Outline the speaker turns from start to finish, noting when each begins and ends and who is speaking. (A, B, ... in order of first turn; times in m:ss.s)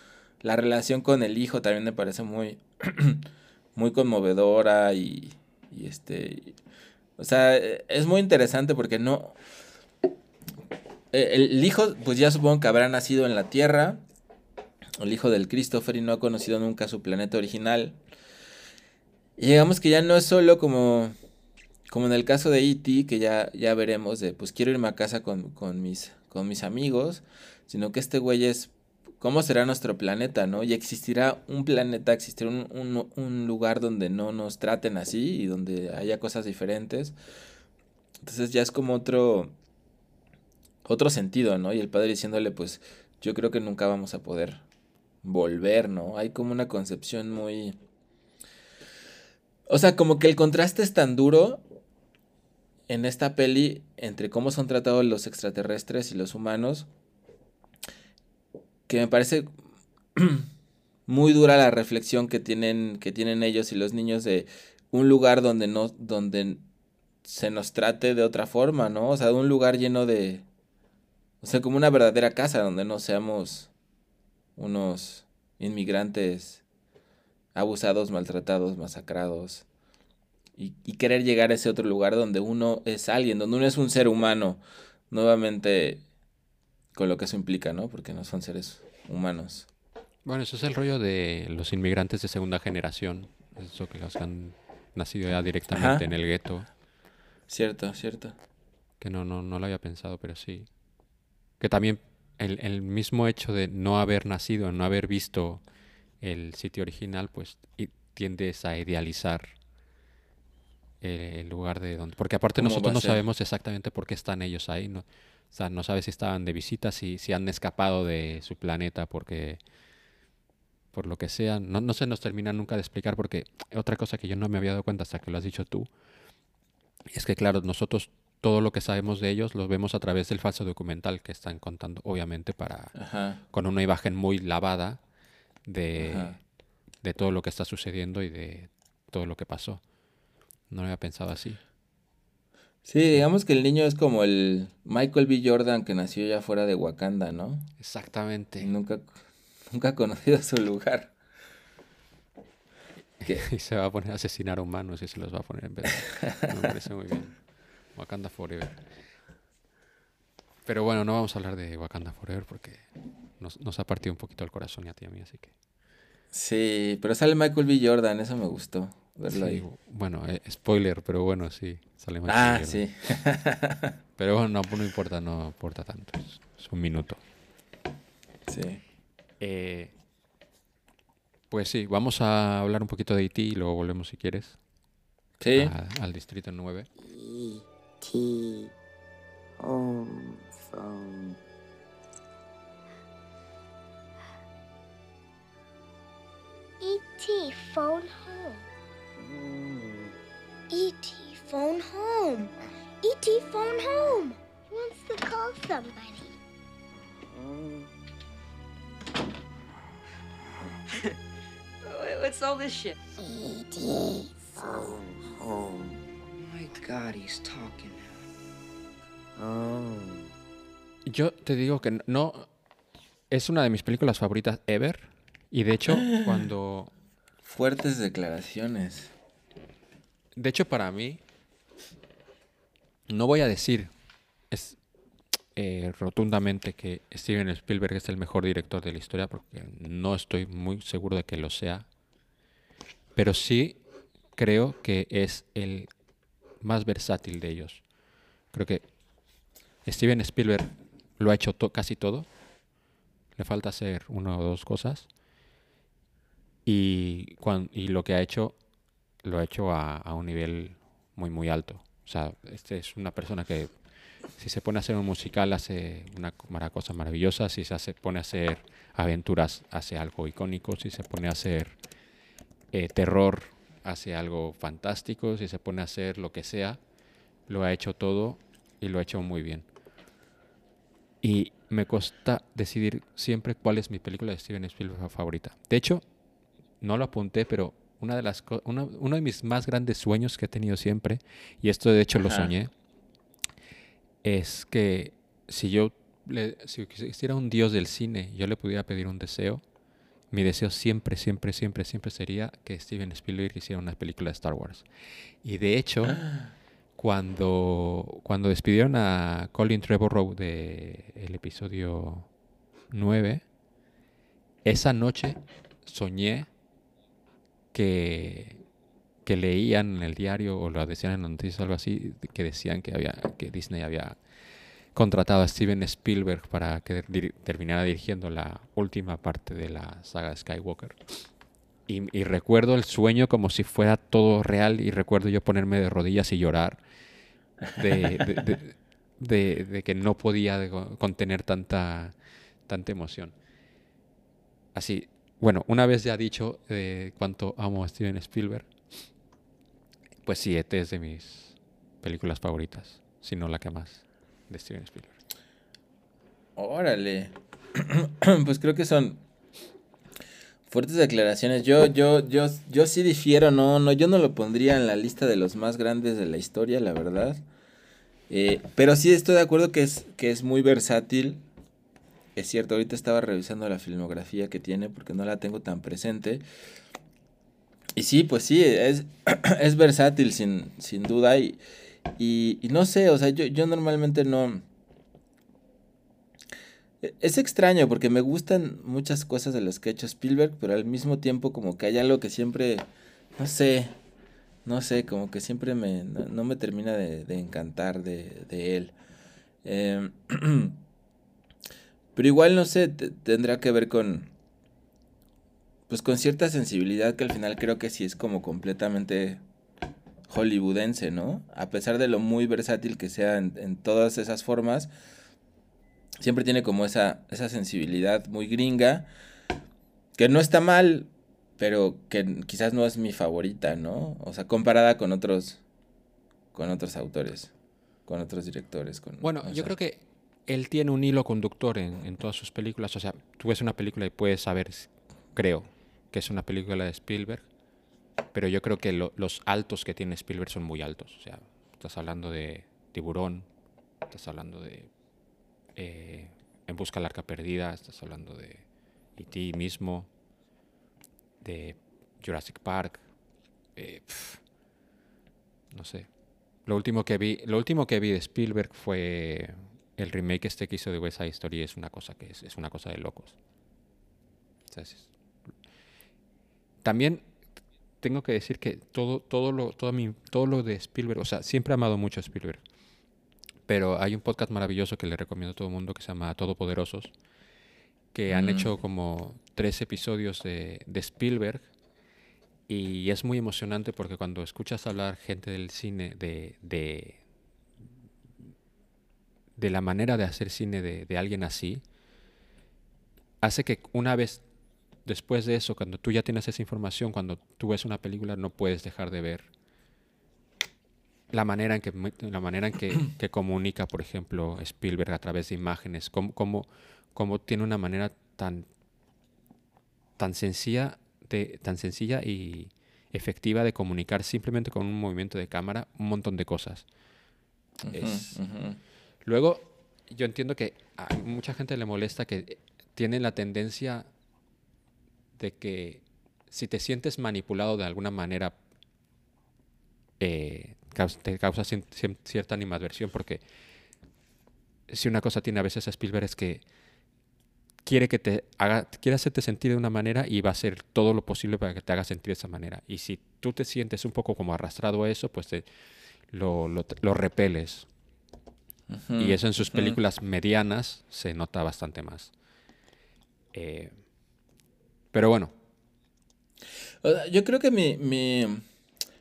0:00.4-0:06.6 A
0:07.2-0:09.4 A
0:11.1-0:14.0 A
0:15.0-0:18.0 A
0:19.4-0:21.2 A
0:21.9-0:37.2 A
0:38.2-0:39.6 A
0:40.8-0:44.6 A
0:45.2-0:47.8 A
0:49.7-0:51.6 A
0:52.9-0:56.9 A
0:58.9-0:59.5 A
1:00.2-1:00.5 A
1:01.1-1:06.7 A
1:07.2-1:10.4 A
1:11.4-1:13.7 A
1:14.6-1:16.6 A
1:17.6-1:19.6 A
1:20.6-1:26.0 A
1:26.9-1:29.7 A
1:30.2-1:36.7 B
1:35.7-1:36.0 A
1:37.5-1:38.4 A
1:39.0-1:40.7 B
1:41.6-1:45.6 B
1:46.2-1:49.5 B
1:51.0-1:59.6 B
1:52.6-1:53.2 A
2:00.9-2:05.9 B
2:07.1-2:13.0 B
2:13.0-2:13.4 A
2:13.5-2:15.0 B
2:15.7-2:16.4 B
2:16.0-2:16.4 A
2:17.0-2:19.8 B
2:20.7-2:21.6 B
2:22.8-2:27.7 A
2:27.8-2:28.7 B
2:28.6-2:31.1 A
2:33.2-2:37.4 B
2:36.2-2:36.7 A
2:38.0-2:38.8 B
2:40.7-2:42.9 B
2:43.4-2:45.5 B
2:46.3-2:49.6 A
2:49.3-2:52.8 B
2:52.3-2:54.0 A
2:54.2-2:57.2 B
2:58.5-2:58.8 A
2:59.4-2:59.9 B
3:01.5-3:04.6 B
3:05.4-3:05.7 A
3:05.5-3:06.9 B
3:07.0-3:08.7 C
3:09.6-3:11.4 C
3:16.8-3:18.7 D
3:19.2-3:20.1 C
3:20.7-3:26.3 D
3:27.3-3:27.9 C
3:31.9-3:33.0 E
3:33.7-3:35.9 C
3:36.4-3:38.2 E
3:39.4-3:40.3 C
3:41.1-3:42.5 B
3:43.3-3:46.9 B
3:45.9-3:46.5 A
3:47.4-3:49.1 A
3:50.4-3:51.2 B
3:53.1-3:53.9 B
3:54.5-3:54.8 B
3:55.6-4:01.9 B
4:03.2-4:03.8 B
4:04.4-4:05.9 B
4:06.6-4:07.8 B
4:08.5-4:08.8 B
4:09.8-4:12.3 B
4:13.4-4:15.1 B
4:16.7-4:18.6 B
4:19.2-4:23.7 B
4:24.4-4:31.8 B
4:32.7-4:36.8 B
4:37.5-4:39.7 B
4:41.2-4:46.0 B
4:46.8-4:52.7 B
4:52.2-4:52.5 A
4:54.2-4:59.6 B
5:00.3-5:04.9 B
5:05.4-5:06.2 B
5:06.1-5:06.5 A
5:07.0-5:12.3 B
5:12.9-5:13.4 B
5:14.6-5:16.5 B
5:17.7-5:18.6 B
5:19.3-5:24.2 B
5:24.9-5:31.0 B
5:31.9-5:36.8 B
5:37.8-5:42.2 B
5:37.9-5:38.4 A
5:42.7-5:43.3 B
5:44.8-5:48.7 B
5:50.2-5:55.2 B
5:56.6-5:59.2 A
6:00.7-6:07.4 A
6:08.3-6:11.4 A
6:12.4-6:16.4 A
6:18.0-6:21.6 A
6:22.2-6:24.6 A
6:27.0-6:34.0 A
6:34.6-6:39.0 A
6:39.6-6:40.8 A
6:42.2-6:44.3 A
6:45.9-6:49.4 A
6:50.3-6:54.9 A
6:56.2-6:59.1 A
7:00.2-7:05.6 A
7:06.5-7:07.5 A
7:08.1-7:09.7 A
7:09.2-7:17.5 B
7:18.3-7:23.5 B
7:24.1-7:24.9 B
7:25.8-7:28.6 B
7:29.2-7:30.1 B
7:31.4-7:33.0 B
7:33.8-7:34.4 B
7:35.7-7:36.1 B
7:36.7-7:43.4 B
7:44.7-7:45.1 B
7:46.8-7:47.2 B
7:48.0-7:52.6 B
7:53.7-7:57.1 B
7:58.1-8:01.7 B
7:58.3-7:58.7 A
8:02.7-8:07.2 B
8:09.6-8:11.8 B
8:13.4-8:14.4 B
8:15.0-8:19.5 B
8:21.3-8:28.7 B
8:30.2-8:36.8 B
8:37.8-8:38.8 A
8:37.9-8:38.4 B
8:39.2-8:44.1 B
8:45.4-8:48.6 B
8:50.2-8:53.4 B
8:54.9-8:56.6 B
8:57.8-9:05.7 B
9:06.3-9:07.9 B
9:08.9-9:10.0 A
9:09.2-9:12.3 B
9:13.5-9:13.9 B
9:15.1-9:15.5 B
9:17.0-9:18.6 A